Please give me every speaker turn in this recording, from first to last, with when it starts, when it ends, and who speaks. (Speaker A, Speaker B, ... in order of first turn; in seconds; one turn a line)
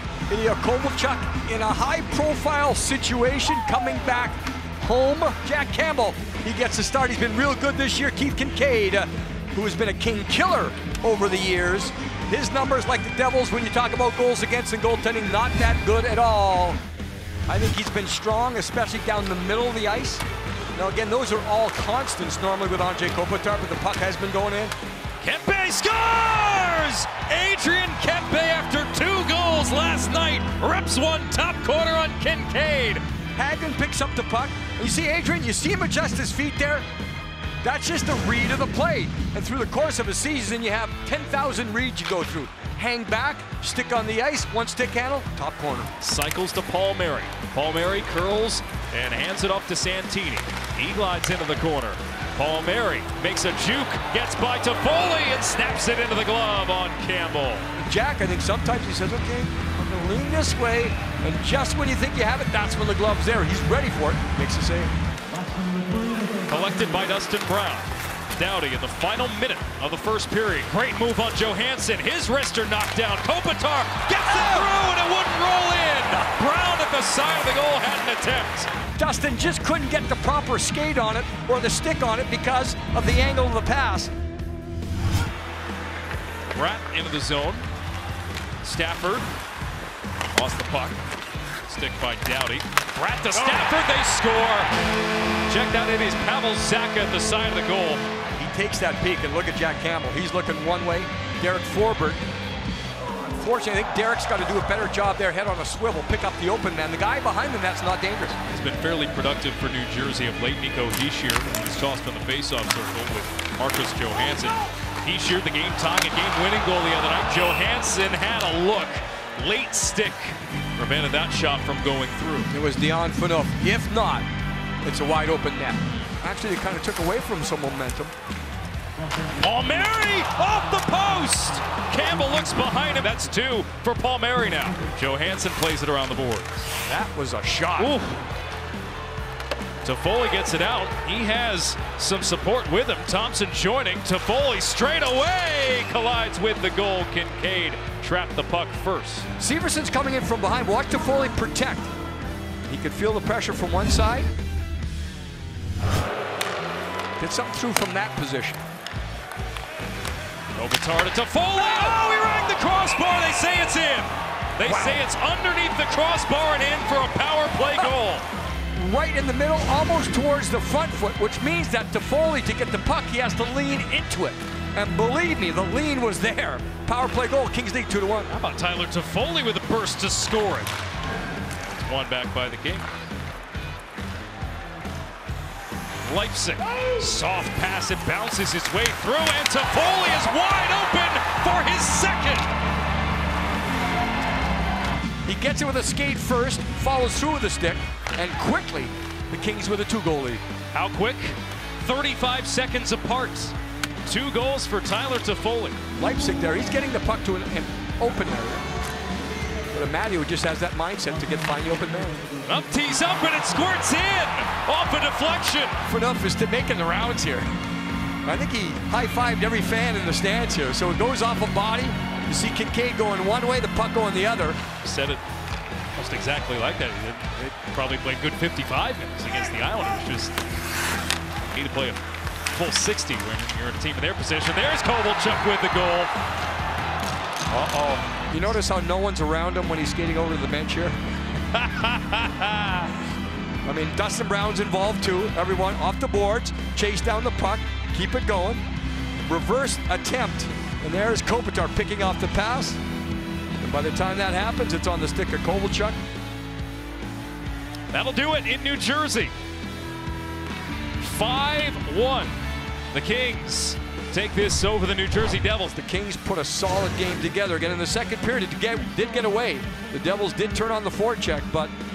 Speaker A: 0.3-16.8
Speaker A: 17.5-20.2
Speaker A: 20.7-24.7
Speaker B: 25.2-33.0
Speaker A: 33.4-36.9
Speaker A: 37.6-45.9
Speaker B: 46.0-57.7
Speaker A: 57.8-64.9
Speaker B: 66.5-78.7
Speaker A: 74.1-74.7
Speaker A: 79.0-84.1
Speaker B: 86.5-87.7
Speaker B: 88.6-89.3
Speaker B: 90.3-91.0
Speaker B: 91.7-94.7
Speaker A: 93.3-93.7
Speaker B: 95.5-98.0
Speaker A: 98.3-102.2
Speaker A: 103.2-108.4
Speaker B: 108.5-122.5
Speaker A: 122.5-124.2
Speaker A: 124.8-128.1
Speaker B: 129.4-136.7
Speaker A: 136.8-138.0
Speaker B: 137.8-138.2
Speaker B: 139.8-149.3
Speaker A: 149.4-151.9
Speaker A: 152.7-154.3
Speaker A: 157.2-158.6
Speaker B: 160.5-168.2
Speaker A: 164.6-165.0
Speaker A: 168.7-178.3
Speaker B: 178.3-180.7
Speaker B: 181.6-182.8
Speaker B: 186.0-192.5
Speaker A: 195.2-200.4
Speaker B: 200.7-203.5
Speaker B: 204.1-205.8
Speaker A: 206.0-208.6
Speaker A: 209.7-212.2
Speaker B: 212.4-215.8
Speaker A: 215.8-217.5
Speaker A: 218.2-224.6
Speaker B: 224.8-225.2
Speaker B: 226.0-230.3
Speaker B: 231.5-232.0
Speaker B: 232.5-236.1
Speaker A: 237.5-240.9
Speaker B: 241.5-242.9
Speaker A: 243.6-248.6
Speaker A: 249.2-252.8
Speaker A: 253.6-256.0
Speaker B: 257.9-259.3
Speaker B: 261.0-262.4
Speaker B: 262.9-265.8
Speaker A: 265.7-271.7